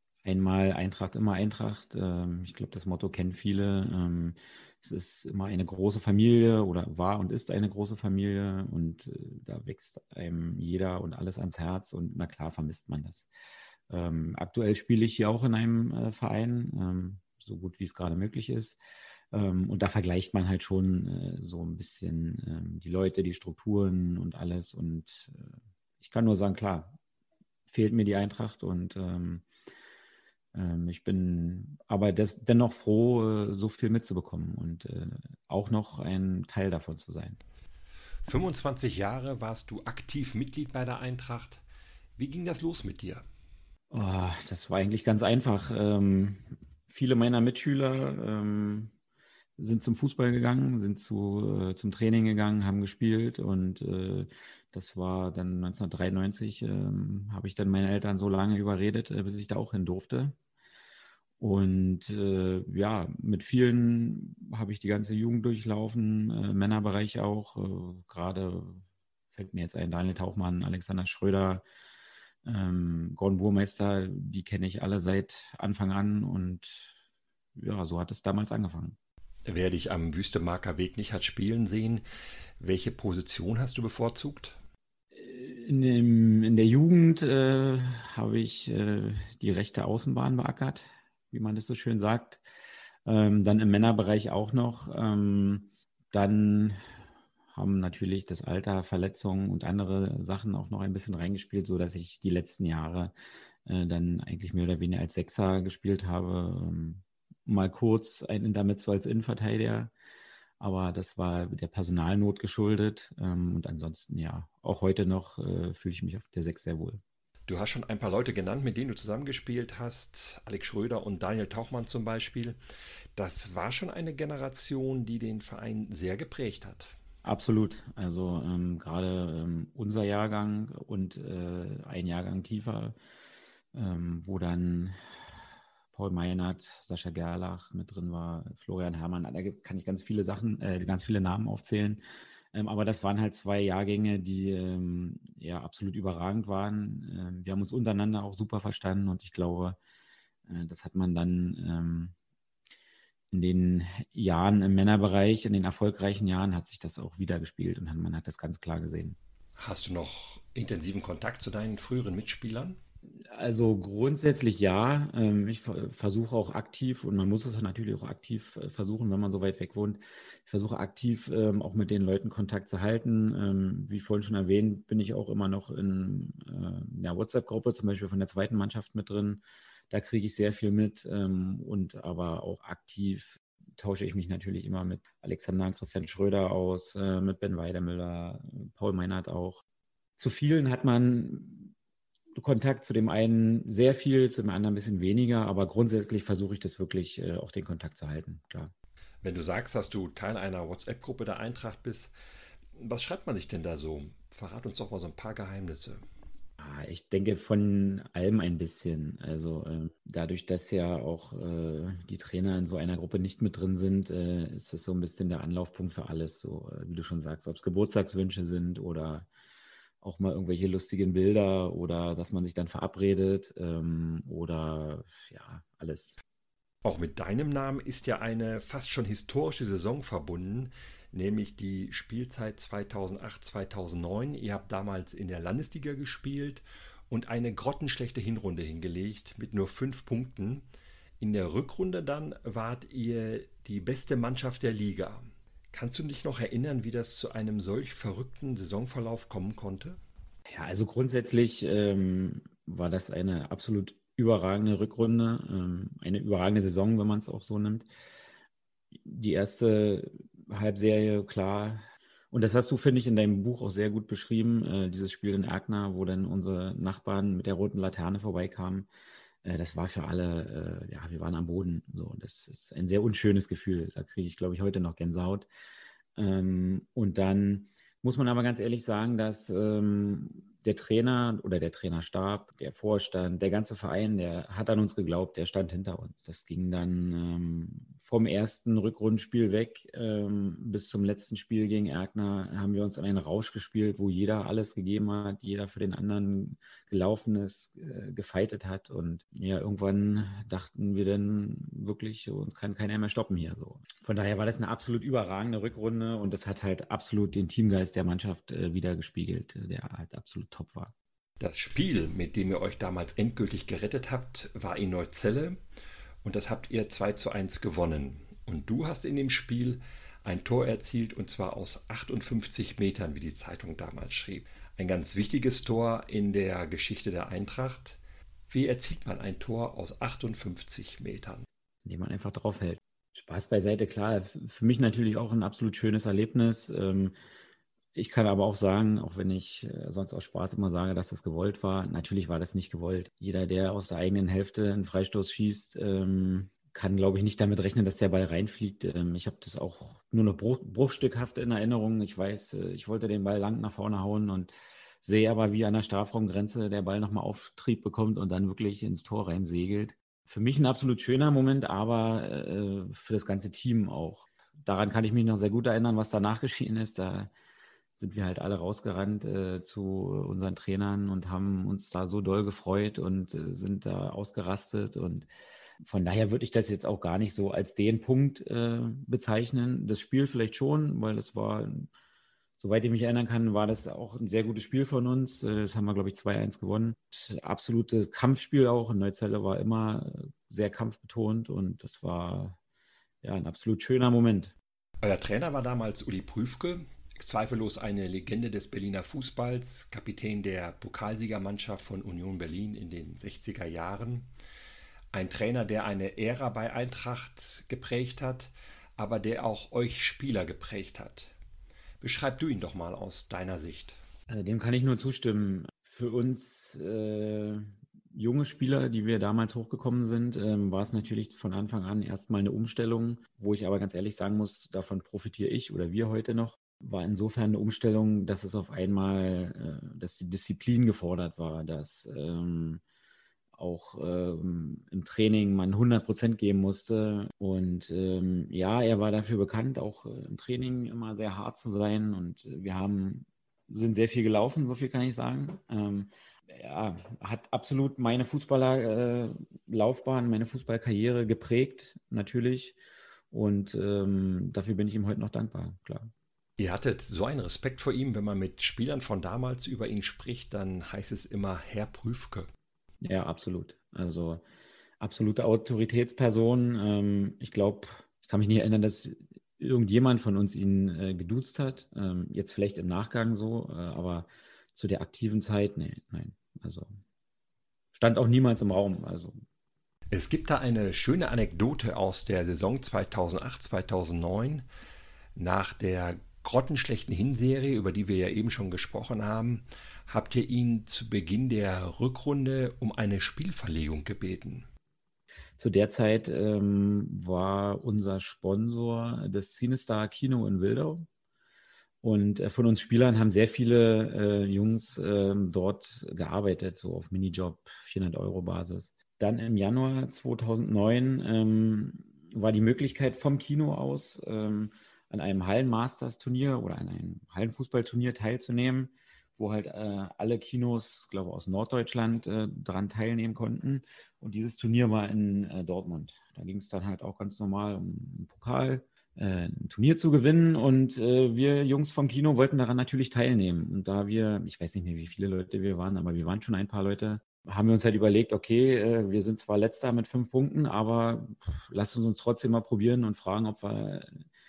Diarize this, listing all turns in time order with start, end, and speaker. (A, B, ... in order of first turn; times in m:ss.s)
0:00.2-0:13.3 A
0:13.9-0:18.8 A
0:19.3-0:27.0 A
0:27.7-0:29.5 A
0:30.5-0:37.4 A
0:38.2-0:41.6 B
0:42.2-0:43.2 B
0:43.9-0:48.9 A
0:49.6-1:00.4 A
1:01.4-1:11.6 A
1:12.4-1:16.9 A
1:17.6-1:19.0 A
1:19.5-1:22.0 B
1:22.6-1:24.6 B
1:25.1-1:32.4 A
1:33.0-1:36.8 A
1:37.5-1:43.1 A
1:43.6-1:49.9 A
1:50.6-1:57.0 A
1:57.5-2:02.6 B
2:03.2-2:06.9 B
2:07.2-2:13.0 A
2:13.7-2:15.0 A
2:15.9-2:29.8 A
2:30.5-2:32.1 A
2:33.3-2:39.2 A
2:39.6-2:42.8 B
2:43.3-3:09.6 A
3:10.2-3:11.7 A
3:12.3-3:18.7 A
3:19.2-3:22.1 B
3:22.8-3:26.0 B
3:26.6-3:39.3 A
3:40.0-3:46.2 A
3:46.8-4:00.6 B
4:01.2-4:10.0 B
4:10.5-4:17.9 A
4:18.9-4:28.9 A
4:29.4-4:35.5 A
4:36.2-5:10.9 A
5:11.4-5:15.6 B
5:16.2-5:31.4 B
5:31.8-5:37.1 A
5:38.0-5:54.5 A
5:55.0-6:07.3 A
6:08.0-6:15.3 A
6:15.8-6:21.9 A
6:22.6-6:32.6 A
6:33.2-6:34.5 A
6:35.0-6:44.3 B
6:45.1-6:51.3 B
6:52.0-6:54.0 B
6:54.3-7:12.8 A
7:13.6-7:32.8 A
7:33.3-7:36.1 A
7:36.6-7:42.5 B
7:43.0-7:44.4 A
7:45.0-7:56.9 A
7:58.0-7:59.4 A
8:00.1-8:04.6 B
8:05.4-8:14.7 B
8:15.6-8:21.1 A
8:22.0-9:04.3 A